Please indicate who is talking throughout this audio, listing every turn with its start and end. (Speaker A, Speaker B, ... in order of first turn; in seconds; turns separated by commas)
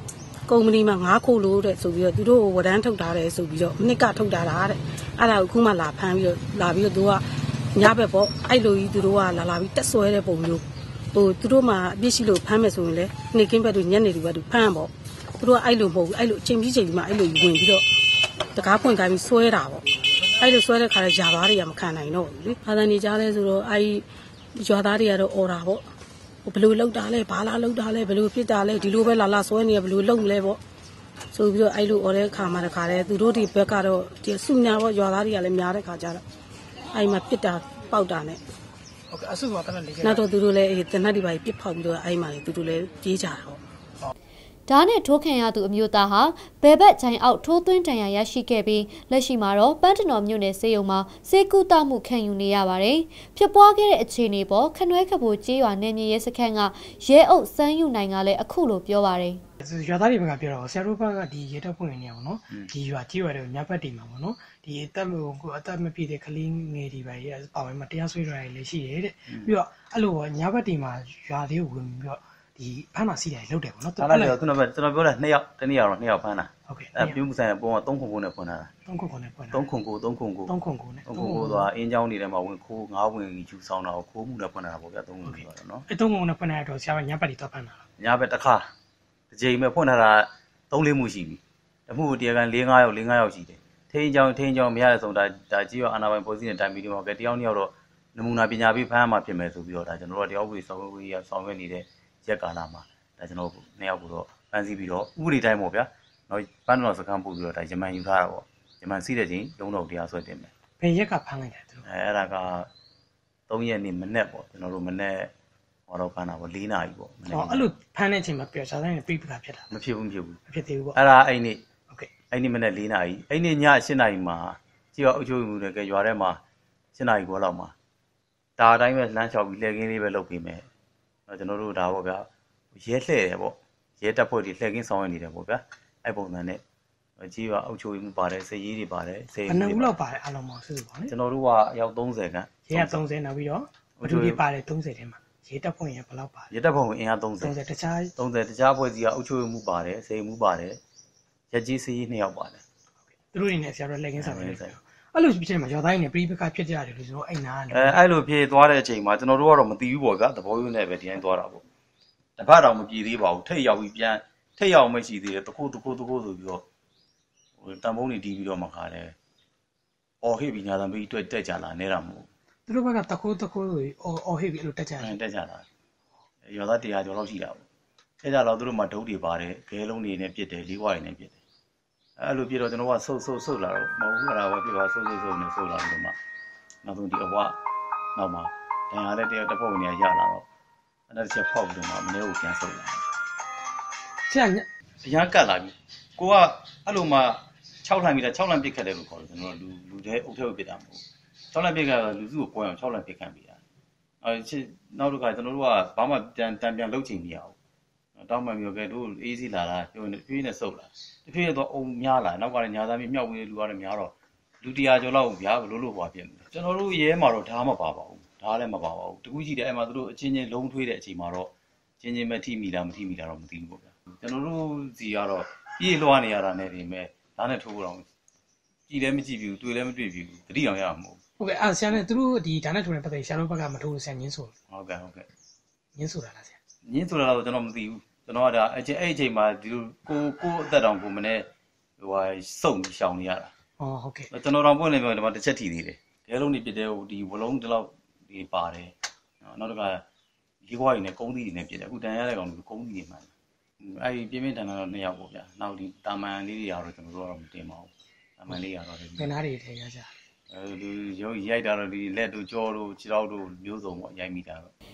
Speaker A: 0.5-17.9, Speaker A: 18.5-19.8, Speaker A: 20.4-25.8, Speaker A: 26.4-30.6, Speaker A: 31.3-36.2, Speaker A: 36.9-38.4, Speaker B: 39.1-40.2, Speaker A: 40.0-43.6, Speaker C: 44.7-59.4, Speaker B: 59.6-74.4, Speaker D: 69.3-69.5, Speaker D: 74.0-78.7, Speaker B: 76.7-77.2, Speaker B: 78.9-79.7, Speaker D: 79.5-80.5, Speaker B: 80.5-81.7, Speaker D: 81.0-85.8, Speaker B: 85.3-87.8, Speaker D: 88.0-88.7, Speaker D: 89.3-110.5, Speaker B: 110.8-111.8, Speaker D: 111.8-112.7, Speaker D: 113.5-115.3, Speaker D: 115.9-117.7, Speaker B: 117.3-119.7, Speaker D: 119.7-120.4, Speaker B: 120.5-121.0, Speaker D: 120.9-121.6, Speaker D: 122.3-126.4, Speaker D: 126.9-127.7, Speaker D: 128.6-130.6, Speaker D: 131.3-136.6, Speaker D: 137.2-140.0, Speaker B: 139.4-141.1, Speaker D: 141.1-143.0, Speaker B: 142.7-146.5, Speaker D: 144.0-144.4, Speaker D: 146.5-147.6, Speaker B: 147.4-148.1, Speaker D: 148.2-150.8, Speaker D: 151.5-152.6, Speaker B: 153.3-158.0, Speaker D: 154.2-154.8, Speaker D: 157.7-161.6, Speaker D: 162.4-166.6, Speaker D: 167.6-169.1, Speaker D: 170.2-172.3, Speaker B: 172.7-175.2, Speaker D: 175.0-175.6, Speaker D: 176.4-177.6, Speaker D: 178.2-181.4, Speaker D: 182.2-186.1, Speaker D: 186.8-187.6, Speaker D: 188.2-190.4, Speaker D: 191.1-193.0, Speaker B: 194.3-194.7, Speaker D: 195.0-203.6, Speaker D: 204.2-207.5, Speaker D: 208.2-228.1, Speaker D: 228.9-231.2, Speaker B: 231.4-234.5, Speaker D: 234.7-235.3, Speaker B: 235.9-236.6, Speaker D: 236.8-241.5, Speaker D: 242.0-243.5, Speaker B: 243.8-244.3, Speaker D: 244.3-250.0, Speaker D: 250.6-253.3, Speaker D: 253.8-259.3, Speaker B: 259.2-260.1, Speaker D: 260.5-264.7